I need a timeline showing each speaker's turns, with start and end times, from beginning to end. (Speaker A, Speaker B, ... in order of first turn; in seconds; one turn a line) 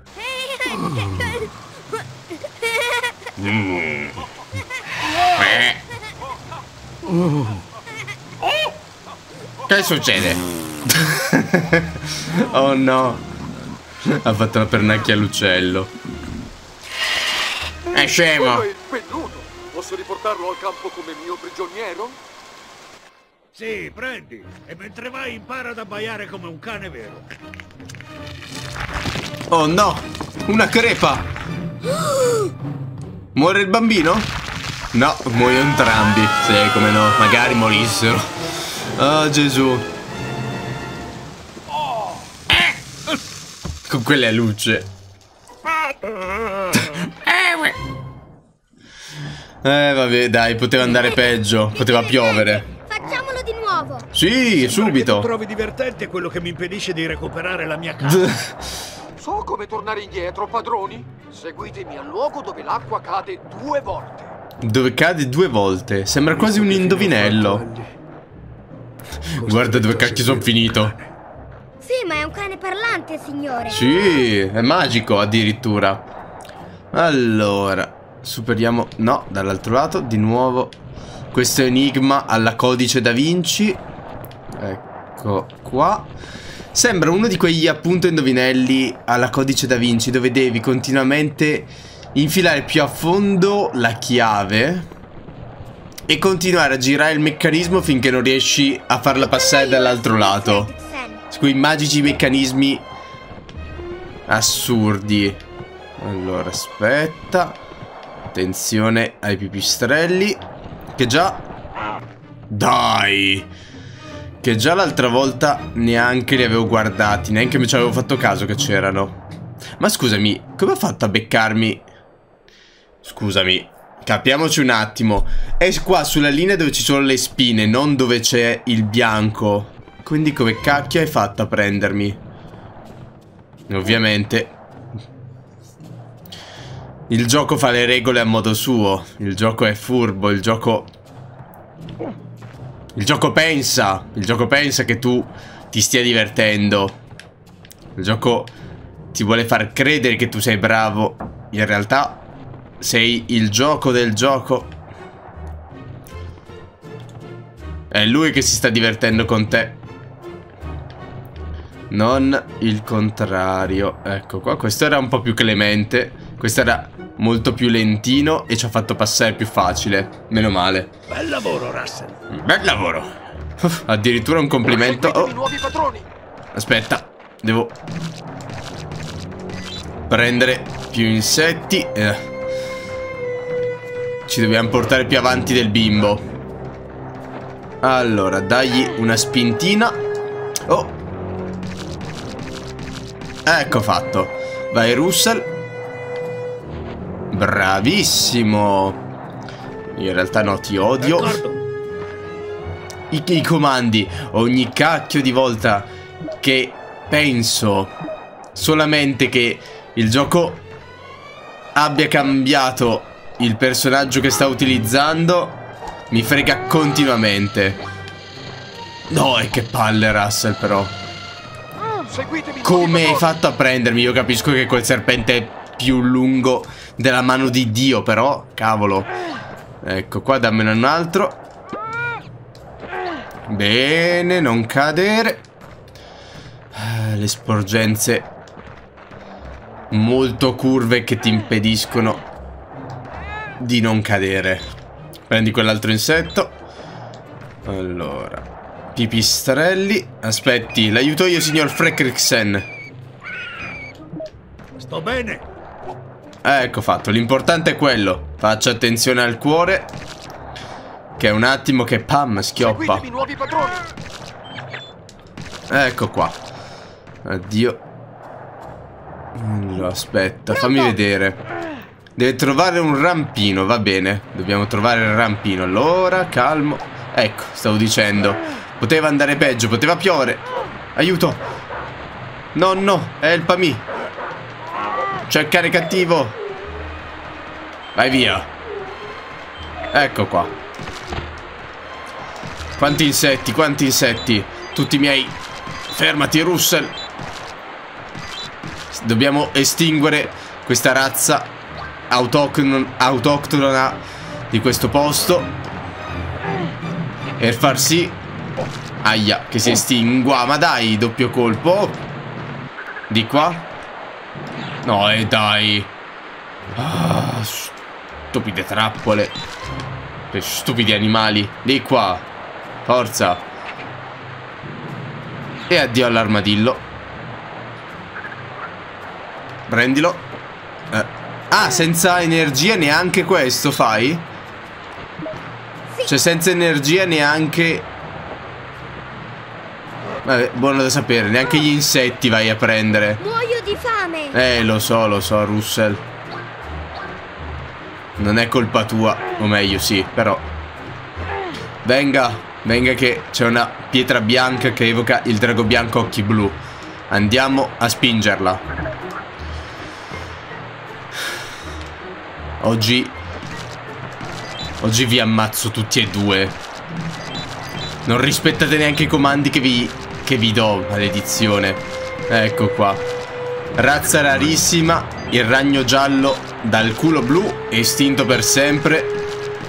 Speaker A: 0.2-1.5
Speaker B: 3.4-4.2
Speaker B: 5.3-5.8
Speaker B: 9.7-13.3
Speaker B: 14.0-15.9
Speaker B: 17.9-18.7
Speaker C: 18.2-22.2
Speaker D: 23.5-27.3
Speaker B: 29.5-31.3
Speaker B: 33.3-34.3
Speaker B: 34.9-38.3
Speaker B: 39.0-39.9
Speaker B: 43.9-44.9
Speaker B: 46.7-47.6
Speaker B: 49.6-52.7
Speaker A: 51.7-54.1
Speaker B: 54.1-55.3
Speaker D: 54.5-58.4
Speaker B: 58.0-58.6
Speaker C: 59.2-64.3
Speaker B: 64.6-67.6
Speaker D: 66.3-67.9
Speaker B: 69.3-70.9
Speaker D: 69.4-71.0
Speaker A: 71.8-73.8
Speaker B: 73.7-76.0
Speaker B: 76.9-80.8
Speaker B: 81.3-83.8
Speaker B: 84.6-86.1
Speaker B: 86.7-94.9
Speaker B: 96.1-100.7
Speaker A: 99.1-101.2
Speaker B: 101.3-102.9
Speaker B: 104.3-105.4
Speaker B: 106.0-107.6
Speaker B: 108.3-110.4
Speaker B: 111.0-111.5
Speaker B: 112.5-113.5
Speaker B: 114.4-119.2
Speaker B: 119.8-121.9
Speaker B: 123.0-132.2
Speaker B: 133.7-134.6
Speaker B: 137.1-140.9
Speaker B: 142.9-147.0
Speaker B: 147.9-148.5
Speaker B: 149.1-152.2
Speaker B: 152.8-154.7
Speaker B: 157.9-159.8
Speaker B: 161.9-170.9
Speaker D: 171.1-172.2
Speaker B: 172.3-175.4
Speaker C: 174.6-176.1
Speaker B: 176.5-177.7
Speaker B: 180.1-182.2
Speaker B: 184.3-186.2
Speaker B: 187.8-190.0
Speaker B: 190.7-191.0
Speaker B: 193.4-195.5
Speaker B: 197.3-199.0
Speaker B: 199.9-201.4
Speaker D: 201.0-201.6
Speaker B: 203.1-207.9
Speaker B: 208.5-210.6
Speaker B: 211.8-217.8
Speaker B: 219.1-220.9
Speaker C: 222.0-223.3
Speaker B: 222.6-229.1
Speaker B: 229.8-231.4
Speaker B: 233.5-235.4
Speaker B: 236.7-238.3
Speaker B: 239.9-242.2
Speaker B: 243.6-244.7
Speaker B: 245.3-246.6
Speaker B: 247.7-252.7
Speaker D: 254.8-255.5
Speaker B: 256.4-259.9
Speaker B: 261.2-263.1
Speaker C: 262.7-263.9
Speaker B: 265.7-266.4
Speaker B: 267.2-267.8
Speaker B: 269.4-271.4
Speaker A: 270.5-271.0
Speaker B: 272.2-280.4
Speaker B: 280.9-281.4
Speaker B: 282.6-283.9
Speaker B: 285.3-286.4
Speaker B: 287.9-288.5
Speaker B: 289.9-290.5
Speaker B: 292.8-297.0
Speaker B: 298.9-301.5
Speaker B: 302.1-305.5
Speaker B: 307.4-308.2
Speaker B: 309.0-312.0
Speaker B: 313.1-313.7
Speaker B: 314.8-315.9
Speaker B: 316.8-317.8
Speaker B: 318.3-319.4
Speaker B: 320.3-322.2
Speaker B: 322.9-323.4
Speaker B: 325.7-326.9
Speaker B: 329.7-330.2
Speaker B: 330.9-334.3
Speaker B: 336.0-337.9
Speaker B: 340.2-343.2
Speaker A: 343.2-344.4
Speaker B: 344.3-346.0
Speaker B: 348.2-350.5
Speaker B: 351.8-358.6
Speaker B: 362.6-363.2
Speaker B: 364.8-366.6
Speaker B: 368.1-373.0
Speaker B: 373.8-379.2